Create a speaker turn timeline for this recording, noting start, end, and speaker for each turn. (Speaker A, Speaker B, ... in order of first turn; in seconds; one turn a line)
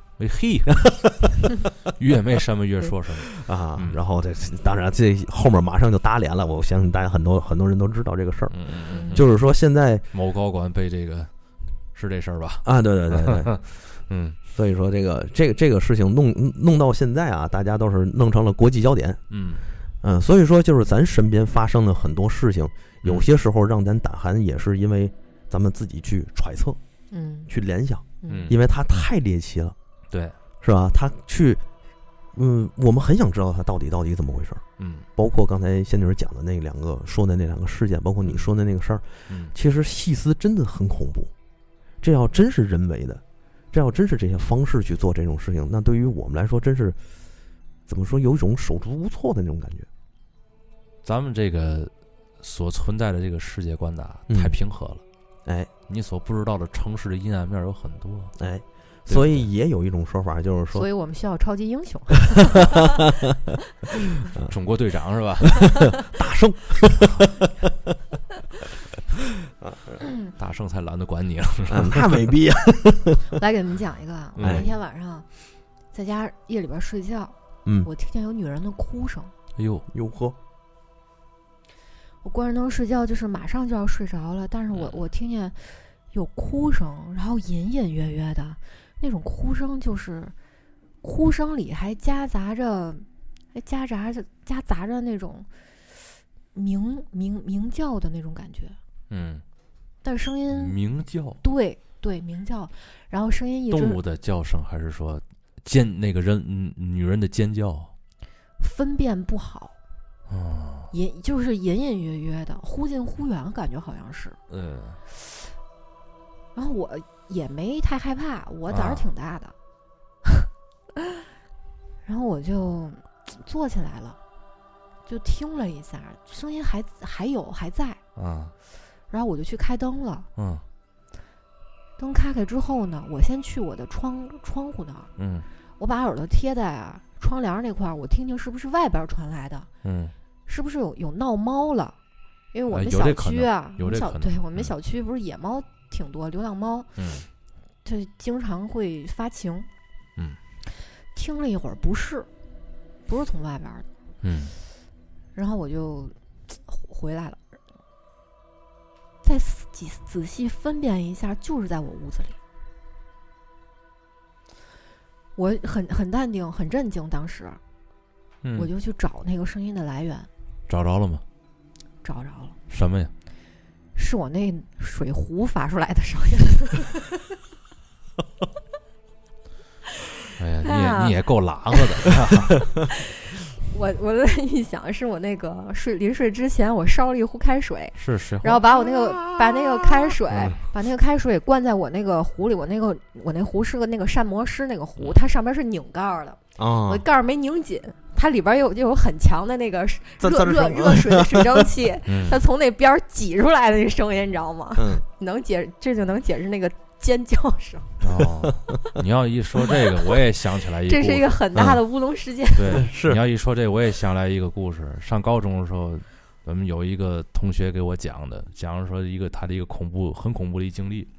Speaker A: 0.2-4.0
Speaker B: 0.8-1.2
Speaker B: 3.2-10.0
Speaker A: 8.5-9.3
Speaker C: 8.9-9.2
Speaker A: 10.1-11.3
Speaker A: 11.9-14.4
Speaker B: 12.7-13.5
Speaker B: 14.5-19.2
Speaker A: 19.3-19.6
Speaker B: 20.0-26.8
Speaker C: 27.1-27.5
Speaker B: 27.5-29.8
Speaker C: 28.2-28.5
Speaker A: 28.3-28.6
Speaker A: 30.1-30.4
Speaker B: 30.6-31.6
Speaker B: 32.3-34.6
Speaker A: 34.8-35.1
Speaker B: 35.2-41.3
Speaker A: 39.3-39.5
Speaker B: 42.0-47.0
Speaker B: 47.9-49.9
Speaker A: 51.0-55.0
Speaker B: 54.3-54.6
Speaker A: 55.9-58.4
Speaker B: 58.4-60.9
Speaker A: 59.1-59.5
Speaker C: 60.7-63.1
Speaker B: 64.3-64.5
Speaker A: 64.5-66.0
Speaker B: 65.6-67.5
Speaker B: 69.6-70.0
Speaker C: 70.0-70.3
Speaker A: 70.4-72.2
Speaker B: 71.7-73.2
Speaker C: 73.3-75.3
Speaker A: 74.4-74.7
Speaker B: 74.4-74.7
Speaker C: 75.9-79.3
Speaker B: 77.7-77.9
Speaker A: 79.6-79.9
Speaker B: 79.9-80.4
Speaker C: 82.2-90.3
Speaker A: 84.7-85.0
Speaker C: 91.0-98.8
Speaker A: 99.1-99.4
Speaker C: 100.0-100.8
Speaker A: 100.5-101.4
Speaker C: 101.4-104.0
Speaker A: 103.7-107.9
Speaker C: 108.6-109.8
Speaker A: 110.3-110.9
Speaker C: 110.9-114.4
Speaker A: 114.5-115.0
Speaker C: 115.1-115.5
Speaker C: 116.5-119.5
Speaker A: 118.7-119.1
Speaker C: 122.0-124.2
Speaker C: 125.1-128.0
Speaker A: 128.2-128.5
Speaker C: 129.1-130.3
Speaker A: 130.4-130.7
Speaker C: 132.0-135.1
Speaker A: 135.2-135.5
Speaker C: 135.8-139.7
Speaker A: 139.8-140.2
Speaker C: 140.5-142.0
Speaker C: 142.5-146.9
Speaker A: 142.7-144.7
Speaker A: 147.0-147.3
Speaker C: 147.8-149.7
Speaker C: 150.8-152.3
Speaker C: 153.1-153.9
Speaker A: 154.2-154.6
Speaker C: 155.3-157.4
Speaker C: 159.2-162.4
Speaker C: 165.4-167.6
Speaker A: 168.4-168.7
Speaker C: 168.6-170.3
Speaker A: 170.7-171.2
Speaker C: 172.0-172.6
Speaker A: 172.7-173.1
Speaker C: 173.9-177.2
Speaker A: 180.4-182.8
Speaker C: 180.6-181.2
Speaker C: 182.6-208.0
Speaker A: 188.0-188.6
Speaker B: 188.7-190.6
Speaker B: 196.6-197.0
Speaker B: 200.2-201.7
Speaker A: 202.1-202.4
Speaker B: 204.8-205.0
Speaker A: 208.0-211.4
Speaker B: 208.4-208.7
Speaker C: 210.9-212.9
Speaker A: 212.6-221.1
Speaker B: 212.7-213.2